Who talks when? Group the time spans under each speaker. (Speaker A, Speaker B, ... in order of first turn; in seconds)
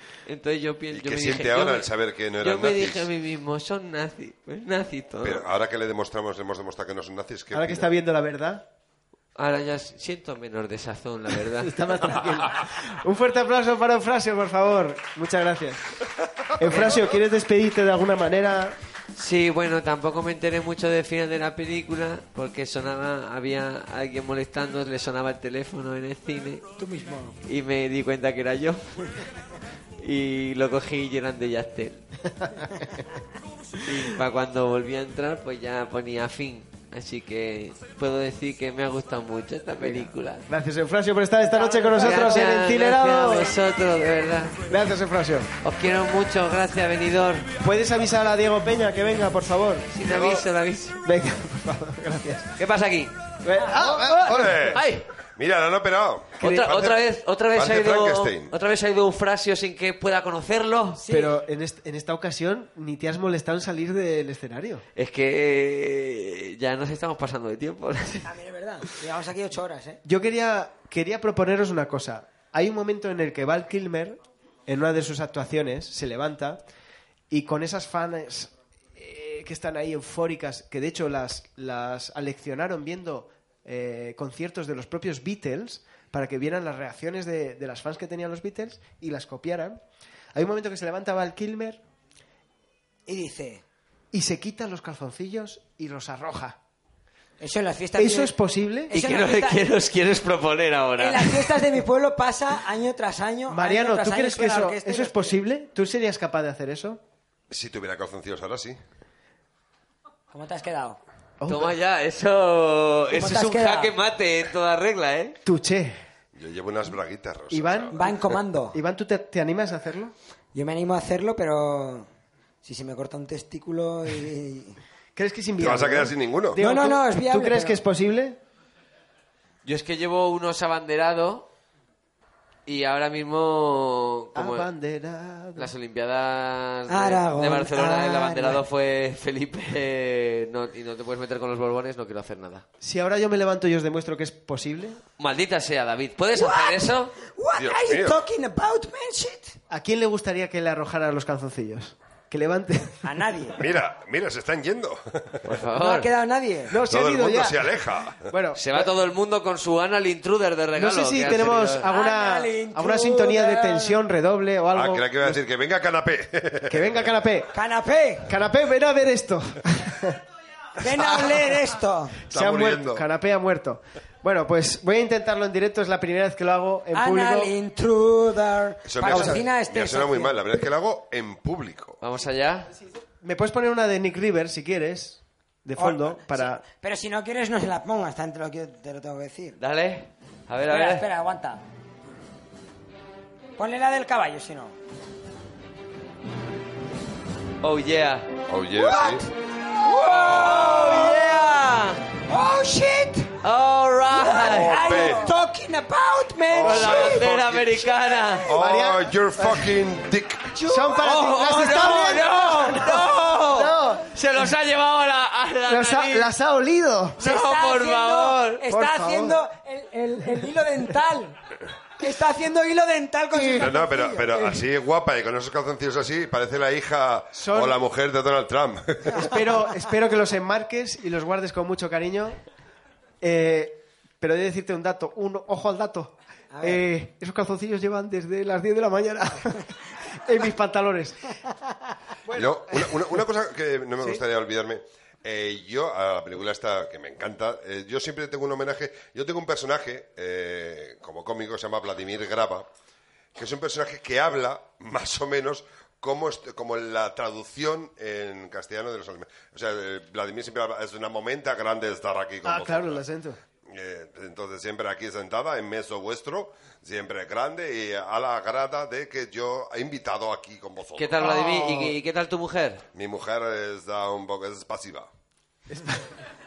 Speaker A: 0.2-1.9, 2.4-5.4, 9.3-11.8, 16.6-17.1, 19.1-26.6, 27.4-29.2, 30.0-32.0, 33.8-40.4, 41.9-44.6, 45.6-47.5, 49.9-51.0, 52.6-53.1, 54.7-55.0, 56.4-61.0, 65.0-68.3, 98.9-101.6, 111.5-115.4, 129.6-131.5, 132.7-134.7, 135.6-142.6, 145.2-147.1, 155.4-156.1, 158.5-161.9, 182.0-182.7, 189.6-191.1, 197.6-198.3, 199.9-202.0, 203.4-205.1, 206.6-208.5, 211.0-216.3, 217.2-218.6, 271.0-272.8
Speaker B: 0.9-3.1, 5.2-7.9, 54.1-58.5, 107.5-108.8, 116.3-118.0, 125.6-126.6, 147.6-148.2, 153.6-155.6, 156.8-158.3, 164.7-167.2, 172.3-173.0, 178.8-182.0, 198.5-199.3, 204.4-205.3, 206.5-207.8, 208.4-210.6, 223.5-229.3, 242.3-252.7, 253.3-263.0, 263.7-271.2, 272.9-275.1
Speaker C: 7.5-8.6, 11.6-15.8, 16.6-18.8, 32.4-32.9, 39.8-43.5, 44.7-45.5, 47.6-50.4, 51.0-52.5, 53.4-54.8, 56.4-56.7, 61.1-64.8, 70.0-76.6, 77.3-89.8, 90.3-91.8, 94.1-96.6, 98.0-98.9, 103.5-107.0, 111.4-111.8, 115.5-116.0, 117.5-120.1, 125.2-128.4, 134.3-135.7, 142.8-145.0, 149.7-153.1, 156.7-158.9, 160.7-165.4, 166.7-167.5, 168.2-170.2, 170.8-171.4, 172.3-177.5, 179.1-179.4, 183.2-186.6, 208.5-209.7, 210.6-214.5, 215.7-217.2, 218.7-219.4, 223.3-223.7, 227.3-227.8, 229.2-232.4, 233.2-241.4, 242.2-243.2, 262.4-263.4, 271.2-271.9, 275.7-276.0
Speaker D: 26.8-27.4, 41.5-42.5, 53.6-54.3, 61.0-61.3, 68.2-70.0, 93.1-93.6, 97.4-98.3, 98.9-99.7, 101.0-105.4, 110.3-111.0, 113.1-113.9, 117.9-118.8, 120.5-122.1, 122.6-124.8, 126.6-127.8, 136.9-138.6, 146.3-149.6, 153.0-153.6, 155.8-156.7, 161.9-164.0, 167.5-168.3, 170.8-172.2, 176.9-180.3, 185.8-189.6, 190.7-191.6, 193.6-194.7, 198.7-199.2, 199.8-201.4, 202.3-203.3, 204.1-207.3, 210.5-212.2, 217.2-221.4, 222.0-224.6, 236.5-236.8